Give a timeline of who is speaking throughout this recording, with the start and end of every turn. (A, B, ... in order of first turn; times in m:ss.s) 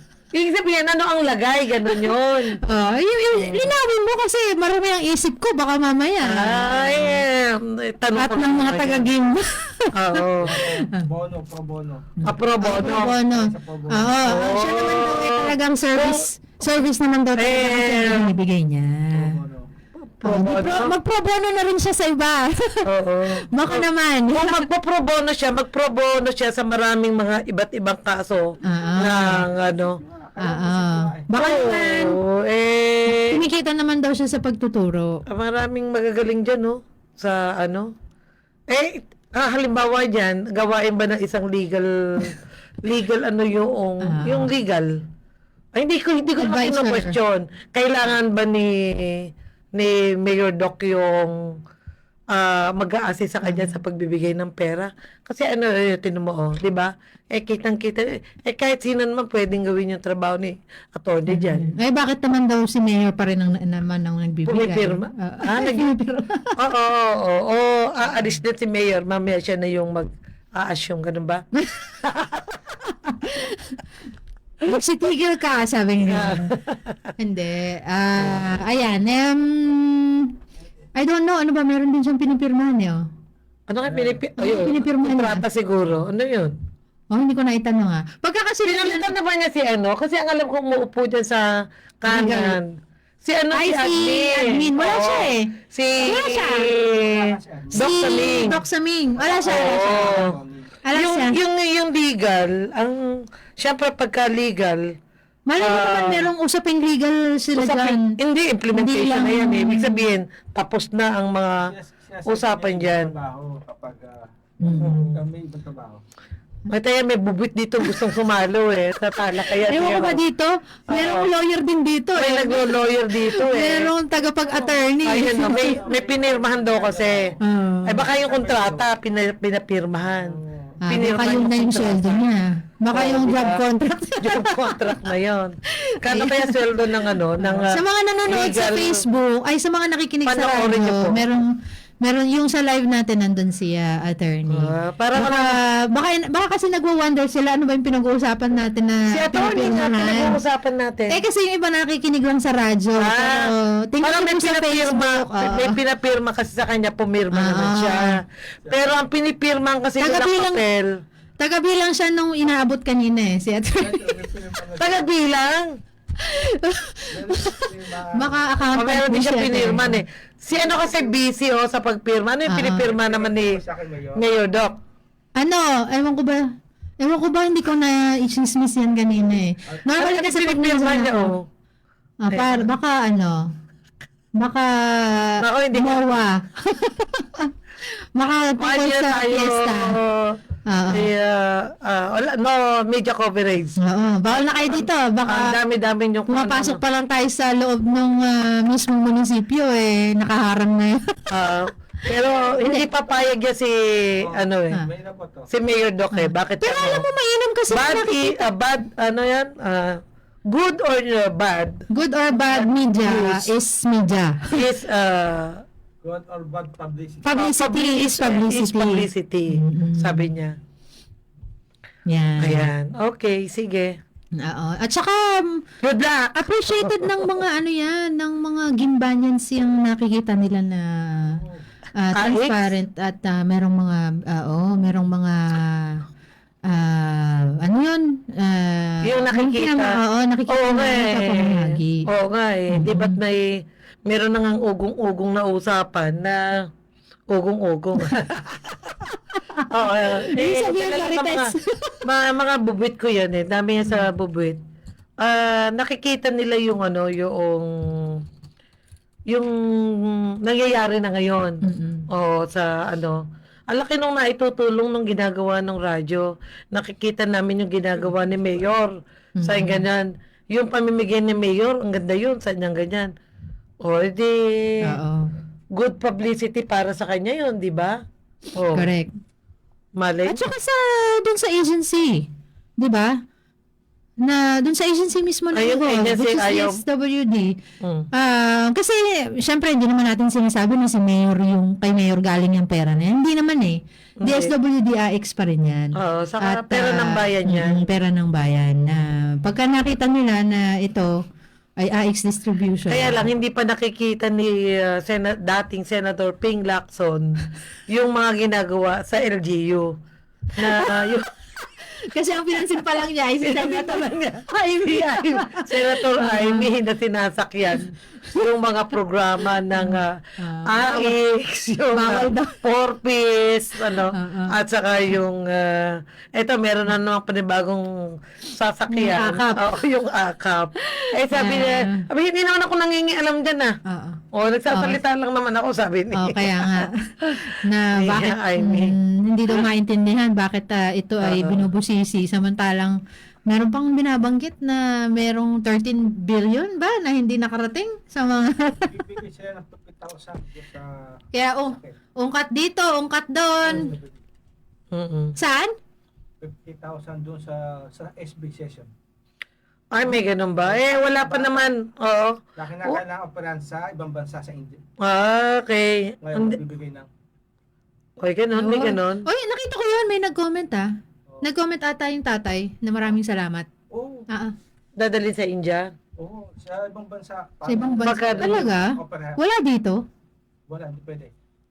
0:00.3-0:02.6 A
0:02.6-0:07.2 B
0:03.4-0:03.7 A
0:06.2-0:09.1 A
0:08.2-0:11.1 B
0:09.9-0:10.5 A
0:10.4-0:12.1 C
0:12.2-0:19.4 B
0:12.2-0:13.1 A
0:13.3-0:14.2 C
0:14.2-0:16.3 A
0:17.4-0:18.3 A
0:19.1-0:19.7 C
0:20.2-0:20.9 A
0:20.2-0:22.9 B
0:22.8-0:30.0 A
0:23.5-0:24.7 B
0:28.6-0:29.4 B
0:29.4-0:31.3 C
0:30.4-0:32.2 B
0:31.3-0:33.4 A
0:33.1-0:35.2 B
0:35.3-0:37.9 A
0:38.7-0:44.9 A
0:44.0-0:44.5 B
0:45.7-0:51.3 A
0:46.4-0:47.2 B
0:52.3-1:01.7 A
0:53.4-0:53.8 B
1:01.3-1:06.5 B
1:04.5-1:05.9 A
1:06.6-1:11.4 A
1:11.5-1:12.0 B
1:12.0-1:12.4 A
1:12.9-1:13.8 B
1:14.6-1:16.5 B
1:16.1-1:17.1 A
1:17.2-1:20.3 B
1:21.0-1:23.1 B
1:23.7-1:26.5 A
1:24.4-1:25.4 B
1:27.1-1:29.1 B
1:28.6-1:32.7 A
1:32.0-1:32.6 B
1:33.2-1:38.6 A
1:33.5-1:36.7 B
1:36.8-1:38.5 C
1:37.7-1:40.3 B
1:39.2-1:40.7 C
1:39.4-1:40.4 A
1:40.8-1:41.4 B
1:40.9-1:44.8 A
1:45.5-1:48.2 B
1:45.6-1:46.3 A
1:47.6-1:51.7 A
1:48.7-1:50.2 B
1:51.6-1:54.3 C
1:52.2-1:53.1 A
1:54.6-1:55.1 B
1:54.8-1:55.2 A
1:55.1-1:56.0 C
1:56.7-2:00.2 A
1:59.6-2:02.8 B
2:00.9-2:01.3 A
2:02.2-2:03.9 A
2:03.3-2:05.8 B
2:04.5-2:07.4 C
2:05.0-2:07.3 A
2:07.4-2:08.0 B
2:07.8-2:12.2 A
2:08.0-2:08.9 C
2:10.1-2:10.8 C
2:10.8-2:15.0 B
2:12.9-2:13.6 A
2:14.2-2:19.0 A
2:16.0-2:16.6 B
2:17.1-2:21.5 B
2:20.2-2:21.2 A
2:22.0-2:30.4 B
2:24.5-2:25.6 A
2:29.1-2:31.1 A
2:31.1-2:35.8 B
2:33.0-2:33.5 A
2:34.0-2:40.9 A
2:37.3-2:38.2 B
2:38.7-2:39.0 C
2:40.0-2:40.6 B
2:41.4-2:44.2 B
2:43.8-2:45.1 C
2:44.8-2:45.7 A
2:46.2-2:50.0 B
2:47.1-2:48.5 C
2:48.7-2:53.6 A
2:50.5-2:51.1 C
2:52.5-2:52.8 B
2:52.7-2:54.2 C
2:54.1-2:54.8 A
2:55.4-3:01.4 B
3:00.0-3:01.4 A
3:02.2-3:03.5 B
3:02.3-3:02.6 A
3:04.4-3:07.5 B
3:05.4-3:06.0 A
3:08.2-3:10.0 B
3:08.6-3:10.4 A
3:10.7-3:11.1 B
3:10.9-3:13.8 A
3:13.8-3:15.6 B
3:14.3-3:16.8 A
3:16.3-3:21.3 B
3:21.3-3:24.8 A
3:24.2-3:25.5 C
3:25.5-3:27.0 A
3:26.1-3:28.4 B
3:27.7-3:31.8 A
3:31.9-3:34.6 B
3:32.5-3:33.5 A
3:34.5-3:35.6 A
3:36.0-3:37.4 C
3:37.2-3:40.3 B
3:37.2-3:40.6 A
3:42.1-3:42.7 B
3:42.4-3:44.0 A
3:44.4-3:45.6 B
3:45.8-3:47.0 A
3:46.3-3:51.4 B
3:52.0-3:56.0 B
3:52.2-3:52.6 A
3:56.6-4:02.1 B
3:59.0-3:59.9 A
4:00.5-4:06.6 A
4:02.7-4:03.2 B
4:07.3-4:08.3 A
4:09.7-4:11.5 A
4:10.2-4:12.0 B
4:12.0-4:14.6 A
4:15.2-4:18.2 A
4:19.3-4:33.1 A
4:21.6-4:22.1 B
4:29.4-4:29.8 B
4:33.8-4:34.9 A
4:34.8-4:35.3 B
4:35.7-4:38.0 A
4:38.6-4:38.9 A
4:38.7-4:39.1 B
4:40.0-4:40.4 A
4:40.3-4:42.3 B
4:42.8-4:43.2 B
4:44.2-4:47.6 B
4:45.5-4:46.8 A
4:47.8-4:48.1 A
4:48.1-5:01.1 B
4:54.2-4:54.5 A
4:55.9-4:57.8 A
5:01.8-5:03.3 B
5:02.9-5:10.0 A
5:10.5-5:11.2 B
5:10.6-5:11.3 A
5:11.8-5:16.7 B
5:13.4-5:14.3 A
5:14.8-5:33.7 A
5:19.7-5:21.1 B
5:21.9-5:22.6 B
5:23.9-5:24.6 B
5:28.9-5:29.7 B
5:30.9-5:32.0 B
5:33.8-5:35.0 B
5:34.3-5:38.9 A
5:36.1-5:49.0 B
5:41.2-5:41.7 A
5:48.8-5:51.2 C
5:51.3-5:53.9 B
5:51.7-5:51.9 C
5:53.6-5:54.2 C
5:54.9-5:55.3 A
5:55.4-5:55.7 B
5:56.4-5:58.9 C
5:59.9-6:02.4 A
6:00.6-6:01.7 C
6:02.6-6:04.8 C
6:05.0-6:06.6 A
6:06.2-6:07.1 C
6:08.2-6:09.2 A
6:08.6-6:13.7 B
6:13.9-6:14.3 C
6:15.0-6:15.9 A
6:16.2-6:19.4 C
6:17.7-6:20.0 B
6:18.0-6:18.7 A
6:20.7-6:21.3 C